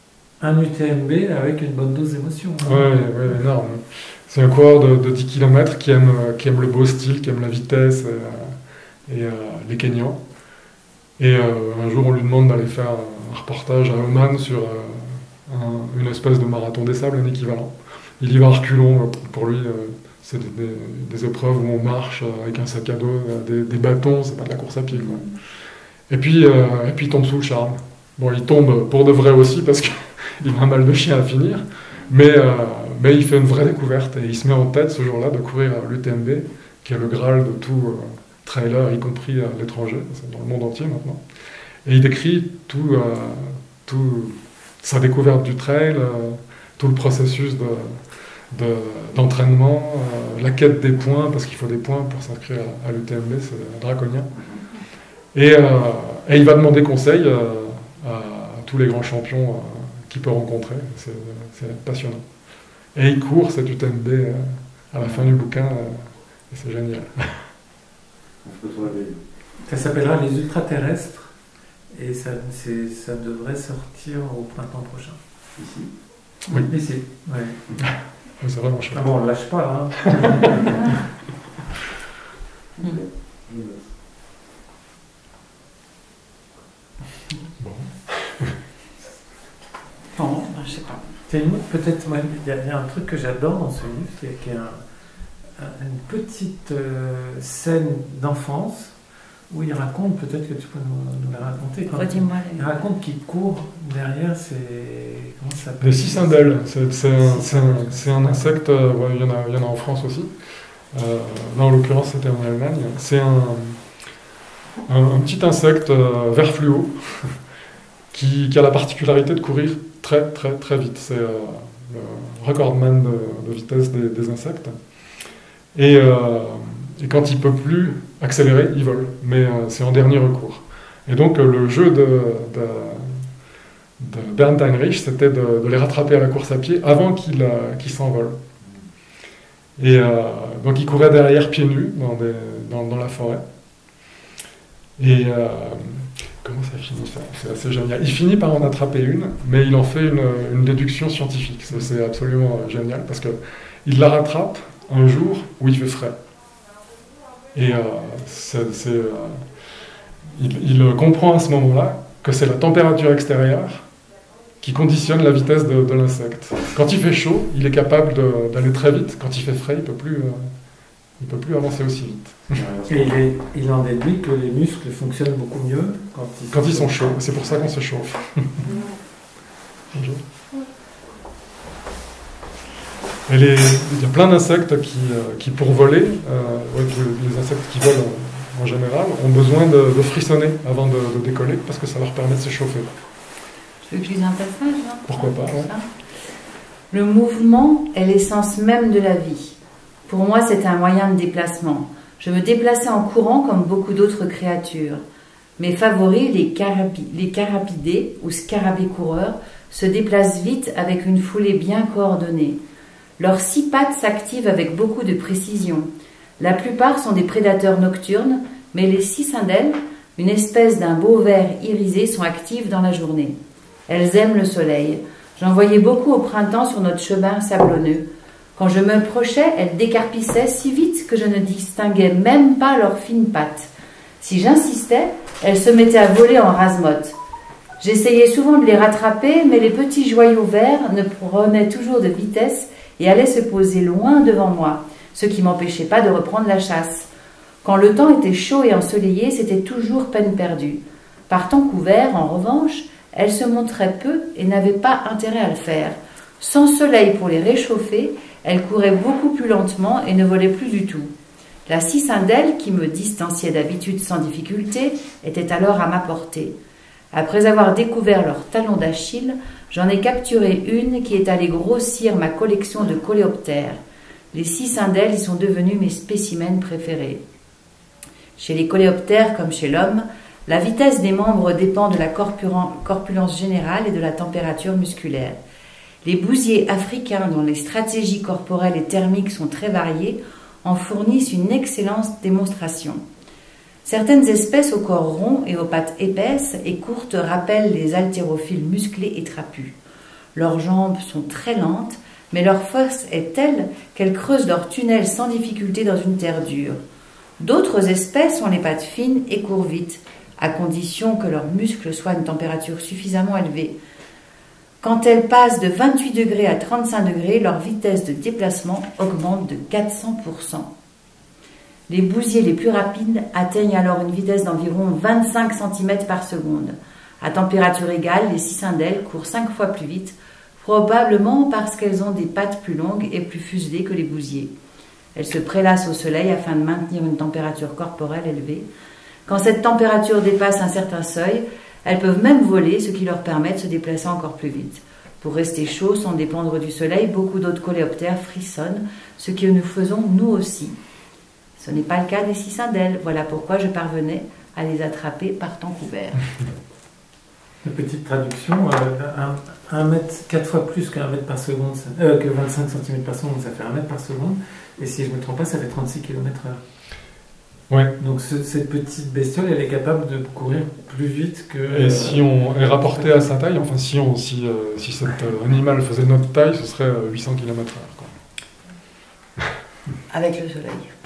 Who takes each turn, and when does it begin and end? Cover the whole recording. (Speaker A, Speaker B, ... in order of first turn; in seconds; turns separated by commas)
Speaker A: 0.4-2.9, Speaker B: 2.6-8.6, Speaker B: 9.1-10.2, Speaker B: 11.2-25.4, Speaker C: 24.9-25.2, Speaker B: 26.1-41.2, Speaker B: 41.9-54.3, Speaker B: 55.3-62.2, Speaker B: 63.0-67.5, Speaker C: 65.0-65.3, Speaker C: 68.4-69.2, Speaker A: 69.7-71.3, Speaker A: 71.9-75.2, Speaker C: 75.6-75.9, Speaker A: 76.7-77.6, Speaker B: 77.8-79.1, Speaker A: 78.9-80.7, Speaker C: 82.8-83.9, Speaker B: 87.6-88.6, Speaker D: 90.2-91.0, Speaker A: 91.3-94.8, Speaker A: 95.6-99.0, Speaker A: 99.5-106.6, Speaker D: 101.9-102.7, Speaker B: 105.8-110.3, Speaker A: 107.1-108.6, Speaker B: 110.9-113.8, Speaker B: 114.9-117.4, Speaker B: 118.1-124.8, Speaker B: 125.7-133.3, Speaker B: 134.0-138.4, Speaker B: 139.8-143.4, Speaker B: 145.0-156.2, Speaker B: 157.5-159.5, Speaker B: 160.2-163.9, Speaker B: 164.6-170.5, Speaker B: 171.2-172.6, Speaker C: 172.6-173.1, Speaker A: 172.9-177.3, Speaker B: 176.5-178.6, Speaker B: 179.9-180.2, Speaker B: 183.3-192.9, Speaker D: 193.8-195.9, Speaker B: 195.1-195.7, Speaker D: 196.9-199.6, Speaker D: 200.1-205.0, Speaker D: 205.6-212.6, Speaker D: 213.2-223.4, Speaker D: 223.9-237.2, Speaker D: 237.8-247.1, Speaker D: 247.6-261.1, Speaker D: 261.7-266.6, Speaker D: 267.1-273.8, Speaker D: 274.3-277.2, Speaker D: 278.4-285.4, Speaker D: 286.0-293.0, Speaker D: 293.9-299.8, Speaker D: 300.4-306.8, Speaker D: 307.4-313.8, Speaker D: 314.8-320.7, Speaker D: 321.9-334.5, Speaker D: 335.1-338.7, Speaker D: 339.3-350.8, Speaker D: 351.6-356.3, Speaker A: 357.6-366.6, Speaker A: 368.0-373.3, Speaker B: 371.7-378.1, Speaker D: 380.1-381.0